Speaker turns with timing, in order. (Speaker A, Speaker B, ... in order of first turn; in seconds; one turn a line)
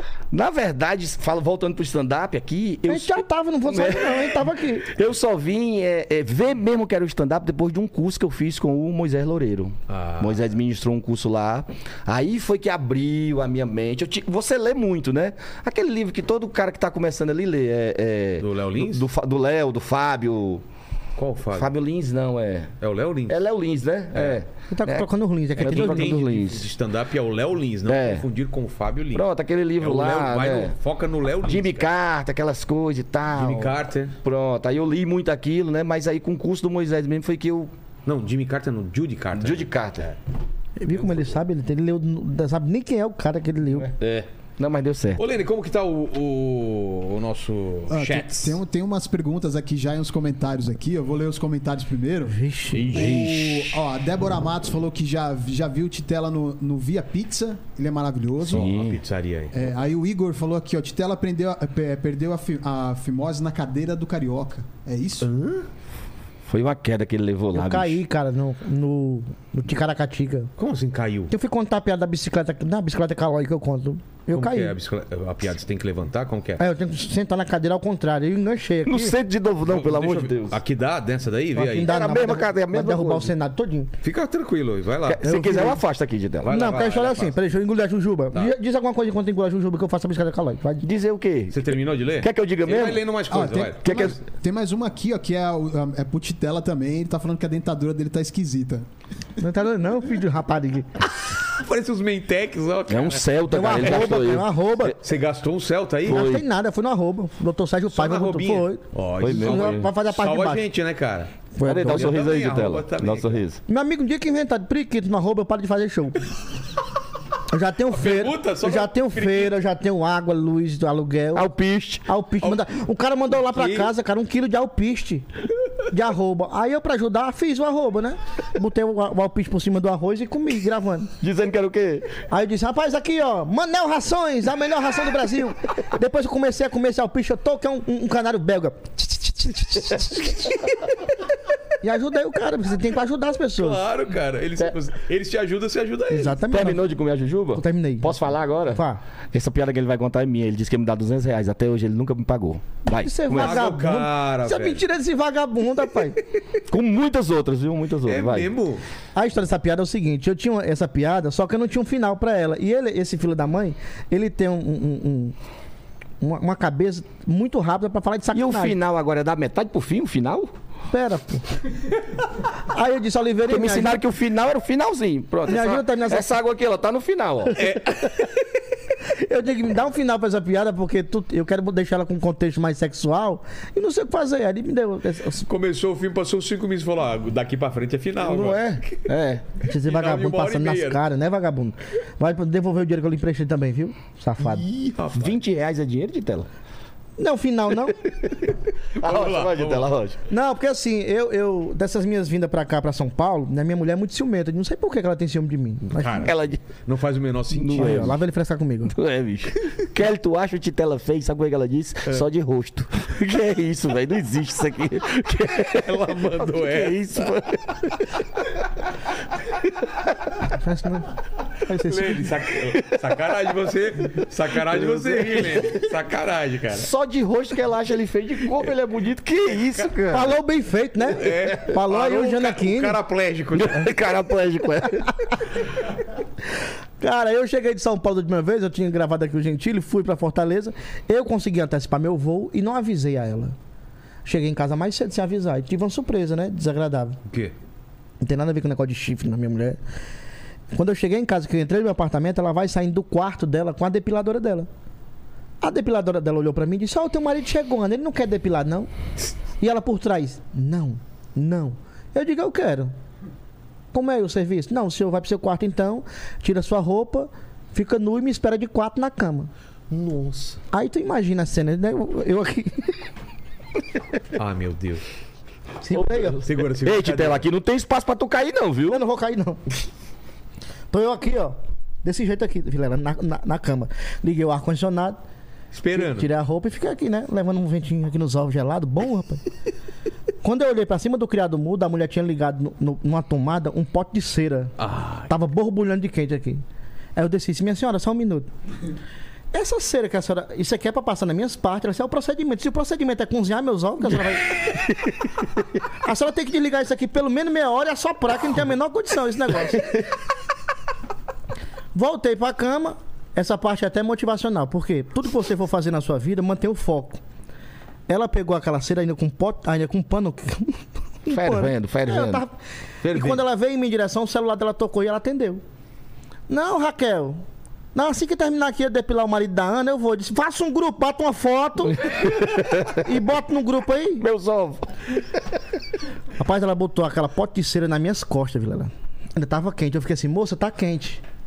Speaker A: 0.3-20.6
Speaker B: 2.9-4.9
Speaker C: 9.9-10.4
Speaker C: 18.4-19.1
Speaker C: 21.2-21.7
Speaker A: 21.6-22.7
Speaker C: 22.8-23.4
Speaker A: 23.3-25.1
Speaker C: 24.1-24.4
Speaker B: 24.7-26.2
Speaker C: 25.6-29.2
Speaker A: 25.6-26.7
Speaker A: 27.9-28.2
Speaker A: 29.1-30.7
Speaker C: 29.8-31.9
Speaker A: 31.4-33.7
Speaker C: 33.3-34.1
Speaker A: 34.2-37.7
Speaker C: 38.1-39.7
Speaker A: 39.4-40.1
Speaker B: 40.8-43.9
Speaker A: 43.8-45.2
Speaker C: 45.2-48.6
Speaker D: 47.9-58.7
Speaker B: 52.3-53.1
Speaker A: 52.7-53.8
Speaker C: 58.4-59.7
Speaker A: 58.5-59.0
Speaker D: 59.5-65.3
Speaker C: 65.2-65.7
Speaker A: 66.5-68.0
Speaker B: 67.5-70.5
Speaker C: 70.6-71.3
Speaker B: 71.3-74.7
Speaker C: 74.3-76.6
Speaker B: 76.6-79.2
Speaker A: 78.9-80.6
Speaker C: 79.7-81.9
Speaker B: 81.5-83.9
Speaker A: 81.8-83.3
Speaker C: 84.0-85.2
Speaker A: 85.1-86.5
Speaker B: 85.2-85.8
Speaker C: 86.4-87.4
Speaker B: 86.5-90.9
Speaker A: 90.8-91.6
Speaker C: 91.5-94.1
Speaker A: 92.2-93.1
Speaker D: 93.3-98.8
Speaker A: 93.8-94.2
Speaker B: 99.4-101.1
Speaker C: 101.5-104.2
Speaker A: 102.9-104.9
Speaker B: 103.5-105.0
Speaker C: 105.0-106.3
Speaker A: 106.1-106.4
Speaker B: 106.1-110.6
Speaker C: 107.9-113.4
Speaker A: 109.2-109.9
Speaker B: 111.6-112.2
Speaker A: 111.6-113.6
Speaker B: 113.7-116.2
Speaker B: 117.5-121.5
Speaker C: 117.9-119.6
Speaker A: 121.3-122.0
Speaker B: 122.1-125.3
Speaker C: 123.5-123.9
Speaker B: 125.9-131.1
Speaker A: 131.2-132.2
Speaker B: 132.3-140.5
Speaker B: 141.8-143.8
Speaker C: 143.6-146.4
Speaker B: 146.1-146.8
Speaker A: 146.5-153.6
Speaker B: 147.6-148.2
Speaker B: 148.7-149.0
Speaker B: 152.9-156.2
Speaker C: 153.3-154.8
Speaker A: 156.7-158.5
Speaker C: 158.1-158.8
Speaker B: 159.2-165.3
Speaker B: 166.2-168.8
Speaker A: 168.3-170.5
Speaker B: 170.9-171.6
Speaker B: 172.6-174.0
Speaker A: 173.5-177.6
Speaker B: 175.4-176.3
Speaker C: 177.6-178.3
Speaker B: 179.1-185.5
Speaker C: 185.5-189.1
Speaker A: 188.2-189.4
Speaker C: 189.6-191.0
Speaker B: 189.6-194.7
Speaker C: 194.5-195.4
Speaker A: 195.1-196.5
Speaker B: 197.2-198.0
Speaker A: 199.0-200.2
Speaker C: 199.0-199.9
Speaker B: 200.3-206.3
Speaker C: 205.9-206.3
Speaker A: 206.1-206.6
Speaker C: 206.8-208.2
Speaker A: 207.5-208.2
Speaker B: 207.7-208.9
Speaker A: 208.9-218.2
Speaker C: 215.5-217.3
Speaker B: 220.5-221.1
Speaker B: 221.6-222.4
Speaker C: 221.8-226.9
Speaker A: 224.6-225.8
Speaker A: 226.8-230.3
Speaker B: 230.1-233.0
Speaker C: 231.1-233.9
Speaker A: 233.5-235.1
Speaker B: 237.0-243.6
Speaker B: 244.2-247.2
Speaker C: 247.3-247.5
Speaker B: 248.2-249.8
Speaker B: 250.7-254.7
Speaker B: 255.6-258.9
Speaker B: 259.6-262.9
Speaker B: 263.9-269.5
Speaker C: 269.9-270.6
Speaker B: 270.7-273.0
Speaker C: 274.3-275.1
Speaker B: 275.8-276.4
Speaker A: 275.9-279.0
Speaker C: 276.4-277.5
Speaker B: 278.9-279.6
Speaker B: 280.9-285.2
Speaker C: 285.7-286.3
Speaker B: 285.9-289.4
Speaker B: 290.4-294.7
Speaker C: 294.8-295.3
Speaker B: 295.3-296.6
Speaker B: 297.2-298.5
Speaker B: 299.5-304.6
Speaker B: 306.0-310.0
Speaker B: 311.9-317.2
Speaker B: 318.1-325.6
Speaker A: 321.3-322.4
Speaker C: 323.0-323.4
Speaker B: 326.5-327.4
Speaker B: 327.9-334.2
Speaker A: 332.1-333.1
Speaker A: 334.2-334.9
Speaker B: 336.4-341.2